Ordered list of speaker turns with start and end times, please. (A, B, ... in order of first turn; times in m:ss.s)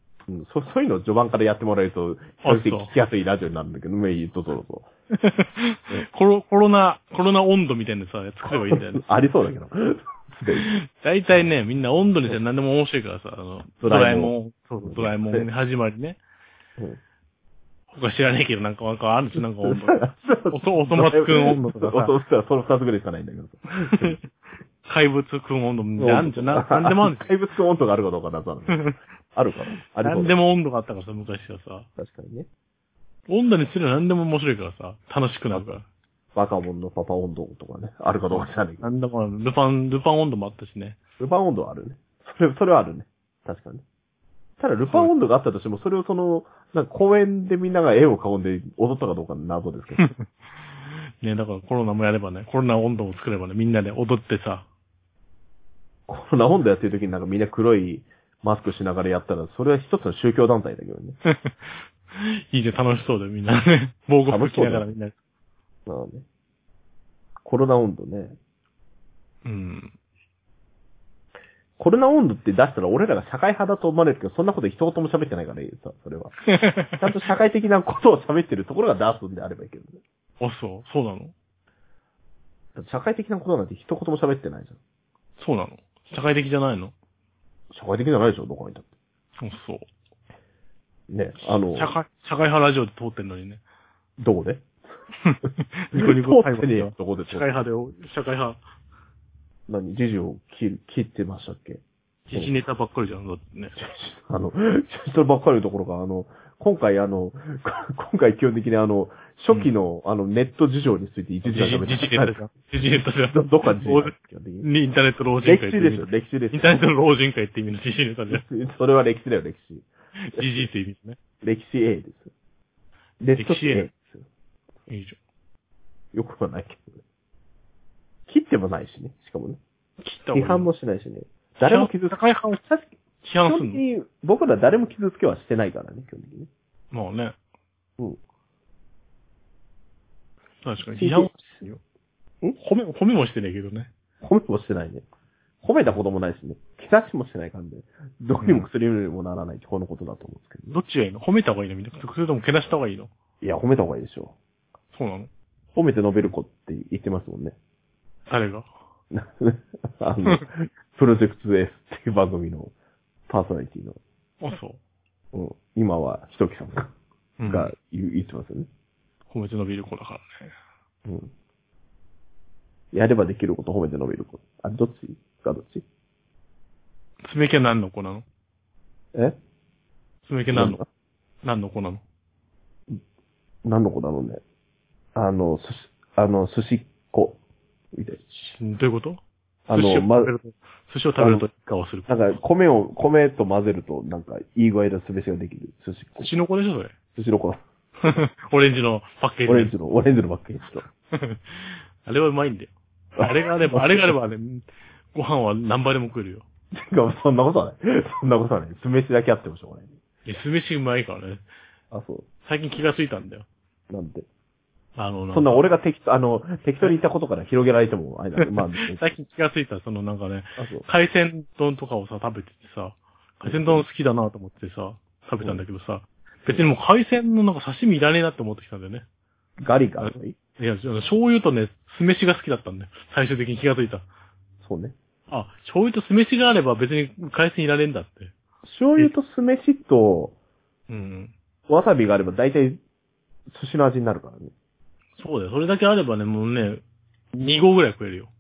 0:00.3-0:04.9 A
0:02.4-0:02.9 B
0:05.1-0:09.0 B
0:08.5-0:10.7 A
0:10.6-0:16.2 B
0:13.8-0:15.5 A
0:17.9-0:22.1 B
0:19.6-0:24.2 A
0:23.8-0:24.2 B
0:24.8-0:27.3 B
0:26.0-0:30.3 A
0:30.0-0:31.9 B
0:32.0-0:32.5 A
0:33.3-0:35.8 B
0:36.4-0:38.8 A
0:38.3-0:41.0 B
0:41.2-0:43.8 A
0:44.6-0:50.1 A
0:50.0-0:54.7 B
0:56.1-1:01.2 A
1:01.2-1:05.1 B
1:04.3-1:04.9 A
1:05.9-1:06.2 A
1:07.4-1:08.4 A
1:09.4-1:09.9 B
1:11.8-1:16.4 A
1:16.5-1:17.1 B
1:16.9-1:20.0 A
1:20.4-1:21.3 B
1:22.8-1:24.8 A
1:25.4-1:26.9 B
1:27.7-1:28.9 A
1:29.4-1:29.8 B
1:31.1-1:32.0 A
1:31.7-1:33.6 B
1:34.2-1:34.8 A
1:35.2-1:38.6 B
1:35.9-1:37.5 A
1:39.7-1:41.8 A
1:42.3-1:43.8 B
1:43.8-1:52.4 A
1:51.4-1:58.4 B
1:53.3-1:54.7 A
1:55.4-1:56.8 A
1:58.3-2:00.6 A
2:00.2-2:01.2 B
2:01.4-2:02.3 A
2:03.2-2:04.3 A
2:03.4-2:03.9 B
2:04.9-2:05.2 B
2:06.1-2:07.0 A
2:08.3-2:09.6 A
2:10.0-2:10.7 B
2:10.3-2:12.2 A
2:11.7-2:13.8 B
2:13.4-2:16.5 A
2:16.9-2:17.4 B
2:20.6-2:21.8 B
2:21.0-2:21.3 A
2:22.6-2:23.9 B
2:24.2-2:25.0 A
2:25.6-2:30.7 A
2:28.4-2:28.7 B
2:30.7-2:33.1 B
2:33.4-2:34.4 A
2:34.9-2:35.3 B
2:35.8-2:37.6 A
2:38.3-2:38.7 B
2:39.1-2:42.7 A
2:43.3-2:44.0 A
2:44.4-2:44.8 B
2:45.3-2:46.9 A
2:47.4-2:47.7 B
2:47.5-2:48.7 A
2:49.3-2:50.5 B
2:51.1-2:51.3 A
2:52.9-2:55.8 A
2:57.2-2:58.2 B
3:00.3-3:00.8 B
3:00.5-3:00.9 A
3:01.4-3:02.0 B
3:03.6-3:04.4 A
3:05.2-3:07.4 A
3:07.9-3:08.2 A
3:08.4-3:09.2 B
3:09.7-3:10.3 A
3:09.7-3:12.1 B
3:11.2-3:11.5 A
3:12.1-3:16.3 A
3:16.2-3:16.9 B
3:17.2-3:17.6 A
3:18.0-3:19.7 B
3:19.5-3:20.9 A
3:21.1-3:26.4 B
3:23.2-3:24.2 A
3:26.7-3:30.0 A
3:30.2-3:31.4 B
3:31.9-3:32.2 A
3:32.4-3:33.5 B
3:33.9-3:34.3 A
3:35.0-3:35.6 B
3:35.3-3:39.0 A
3:38.4-3:49.0 B
3:40.6-3:40.9 A
3:43.4-3:43.8 A
3:49.6-3:50.4 A
3:50.0-3:54.0 B
3:54.6-3:55.0 A
3:55.3-3:58.3 B
3:58.6-4:00.3 A
4:00.9-4:01.3 B
4:01.7-4:02.8 A
4:03.5-4:04.5 A
4:05.2-4:06.8 B
4:07.4-4:08.3 B